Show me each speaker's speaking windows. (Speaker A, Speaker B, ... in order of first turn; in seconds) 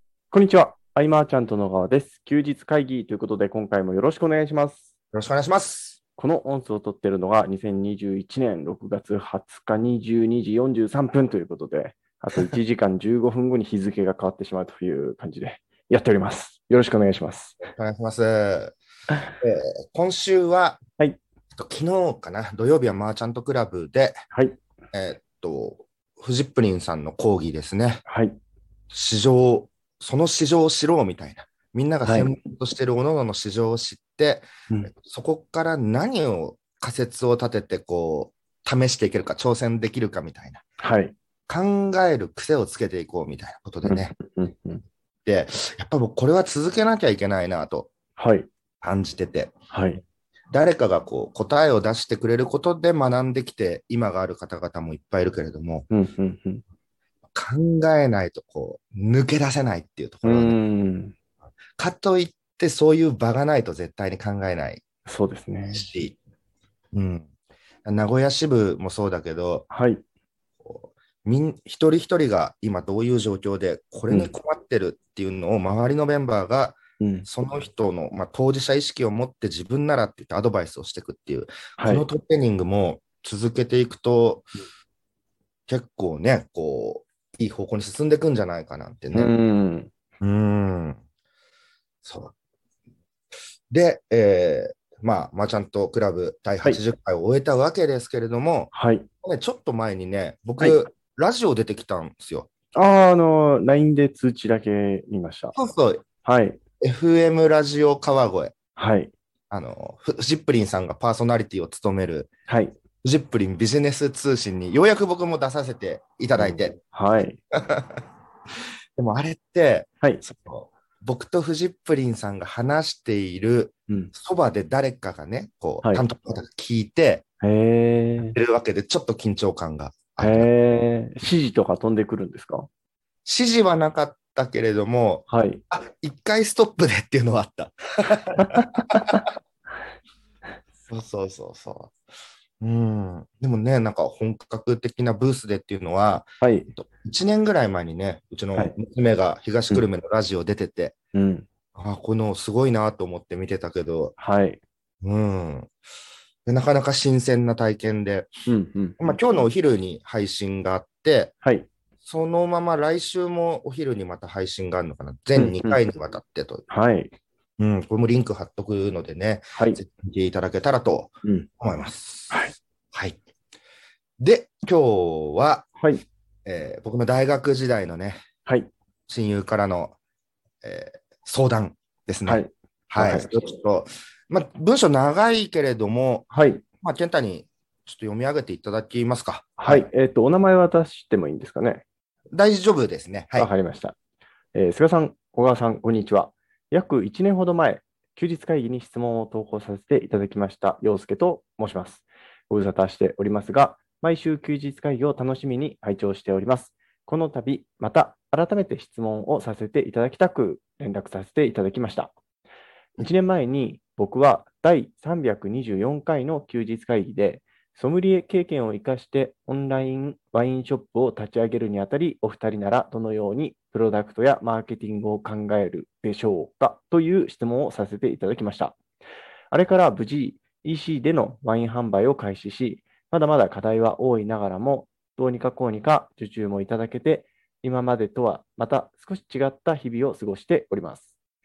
Speaker A: 0.3-4.9, 6.2-17.6, 24.3-24.6, 28.1-28.4, 32.0-32.4, 40.8-41.1, 43.8-44.8, 48.2-48.5, 49.7-50.0, 55.9-56.6, 60.2-61.1, 65.0-65.8, 69.7-70.0, 74.1-74.3, 77.0-77.3, 81.8-82.1, 89.1-89.9, 98.7-99.1, 102.7-105.5, 106.2-106.6, 108.8-109.1, 112.5-112.8, 116.4-117.4, 127.4-128.4, 130.2-132.7, 135.3-135.6, 138.9-139.2, 146.4-146.7, 151.1-151.5, 154.2-154.6, 158.5-159.1, 161.4-161.7, 165.3-165.8, 166.7-167.1, 169.5-169.8, 171.2-171.5, 172.3-172.5, 175.8-176.0, 178.4-178.7, 182.2-183.5, 186.3-186.6, 189.6-191.8, 193.3-193.9, 194.5-212.1, 213.0-228.8, 229.5-241.1
Speaker B: 5.1-6.0, 17.8-18.7, 19.4-20.8, 21.6-24.2, 24.9-28.0, 28.9-40.6, 41.5-44.1, 45.2-47.9, 48.8-49.5, 50.5-55.9, 57.3-60.6, 61.8-64.8, 65.7-66.2, 66.9-67.3, 67.8-69.7, 70.6-84.5, 85.7-89.3, 90.2-91.0, 92.0-92.3, 93.7-98.7, 99.2-102.5, 105.5-106.0, 106.8-108.5, 109.5-112.3, 113.0-116.8, 117.5-118.0, 119.0-127.2, 128.2-130.5, 133.2-139.2, 140.8-141.9, 142.6-150.9, 151.7-154.1, 155.0-155.7, 156.4-158.3, 159.0-161.3, 162.0-166.7, 167.6-173.2, 174.2-175.7, 176.4-178.2, 179.1-179.9, 180.6-186.3, 186.8-189.9, 192.3-193.5